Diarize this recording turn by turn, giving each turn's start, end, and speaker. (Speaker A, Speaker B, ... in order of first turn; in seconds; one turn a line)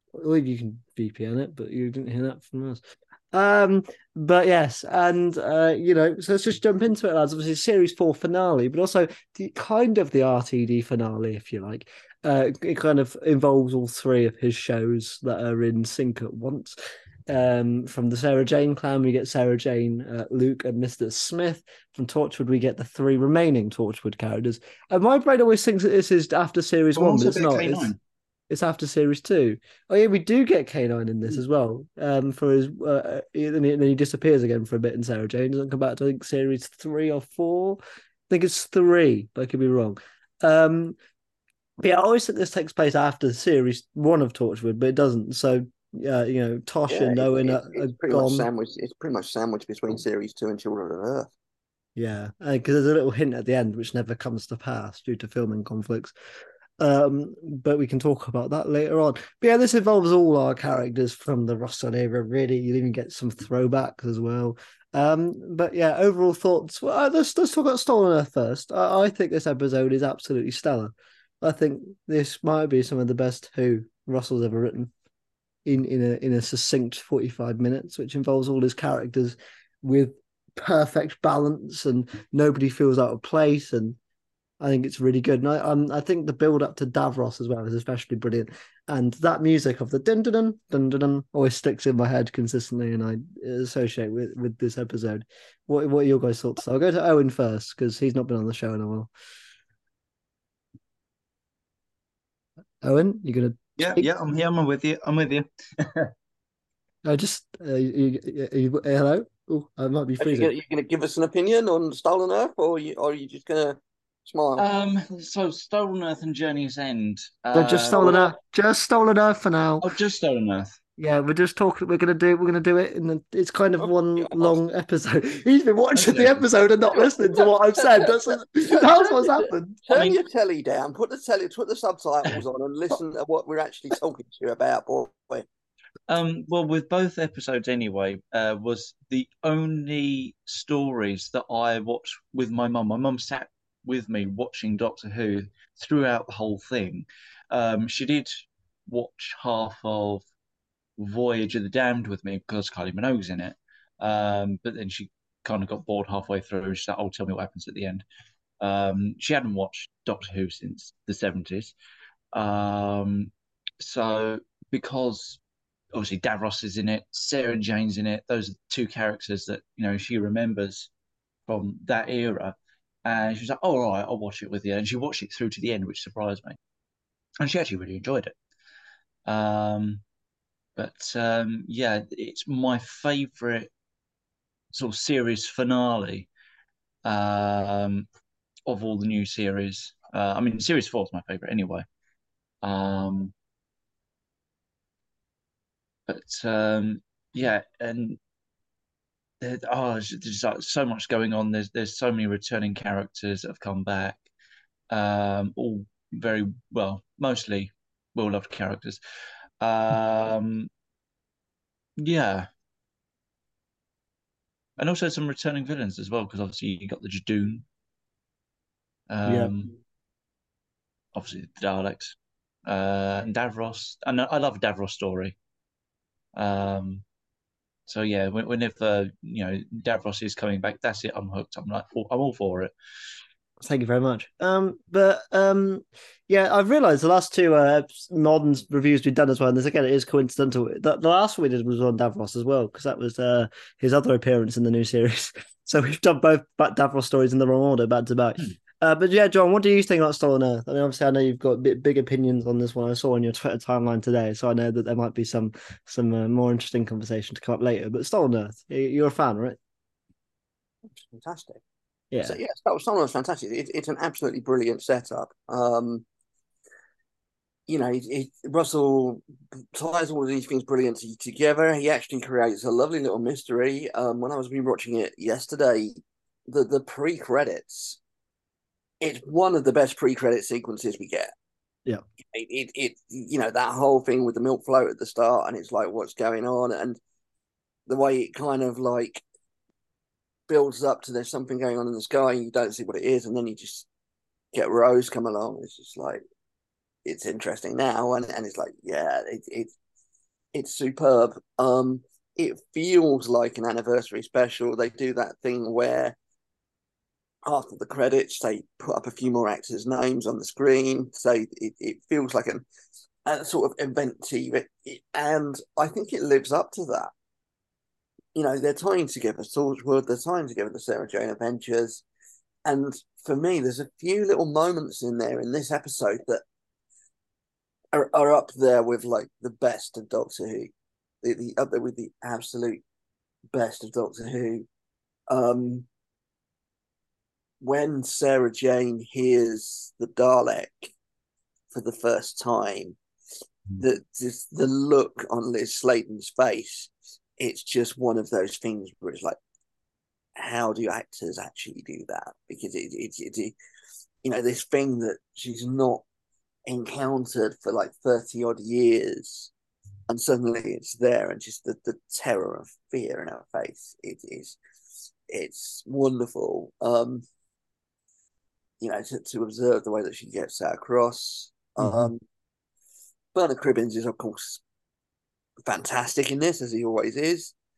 Speaker A: 0.2-16.8
Speaker A: 17.3-27.9
Speaker B: 26.9-28.0
Speaker A: 28.5-41.0
Speaker A: 41.8-48.5
Speaker C: 46.9-51.3
Speaker A: 52.0-56.1
Speaker A: 56.8-74.9
Speaker A: 75.7-84.0
Speaker A: 84.6-99.1
Speaker A: 102.8-104.1
Speaker B: 103.8-106.1
Speaker A: 107.0-110.5
Speaker C: 110.2-114.7
Speaker B: 114.6-118.2
Speaker A: 117.5-119.9
Speaker B: 119.8-120.8
Speaker A: 121.0-129.8
Speaker C: 123.8-124.6
Speaker B: 125.9-126.4
Speaker C: 126.9-128.2
Speaker C: 128.7-135.5
Speaker B: 129.9-130.2
Speaker B: 136.1-150.2
Speaker B: 151.0-158.1
Speaker B: 158.6-161.7
Speaker B: 162.3-165.4
Speaker B: 165.9-170.9
Speaker B: 171.5-176.6
Speaker B: 177.4-178.3
Speaker B: 179.2-180.0
Speaker B: 180.8-183.7
Speaker B: 184.7-186.3
Speaker B: 187.1-188.1
Speaker B: 188.7-191.9
Speaker B: 192.6-193.3
Speaker B: 196.1-198.2
Speaker B: 199.4-204.2
Speaker B: 204.9-209.0
Speaker B: 209.6-210.7
Speaker B: 212.0-212.5
Speaker B: 214.8-217.7
Speaker B: 219.1-219.7
Speaker A: 219.2-219.5
Speaker B: 221.1-225.3
Speaker B: 226.3-227.0
Speaker B: 227.9-232.7
Speaker A: 233.6-259.6
Speaker C: 260.9-261.6
Speaker A: 262.1-262.4
Speaker C: 262.2-266.1
Speaker C: 267.7-278.0
Speaker C: 279.0-281.3
Speaker C: 282.3-287.0
Speaker C: 287.9-289.2
Speaker C: 290.5-293.9
Speaker C: 294.5-296.2
Speaker C: 297.1-299.7
Speaker C: 300.5-306.2
Speaker C: 307.5-312.6
Speaker C: 313.2-317.1
Speaker C: 318.4-322.0
Speaker C: 322.7-326.4
Speaker C: 327.9-332.8
Speaker C: 333.5-334.7
Speaker C: 335.3-335.9
Speaker C: 337.6-340.9
Speaker C: 341.7-343.0
Speaker C: 343.8-349.4
Speaker C: 350.4-353.5
Speaker C: 354.2-356.0
Speaker C: 356.7-359.5
Speaker C: 360.1-364.6
Speaker C: 365.3-367.2
Speaker C: 368.8-372.2
Speaker C: 373.3-374.6
Speaker C: 375.6-377.5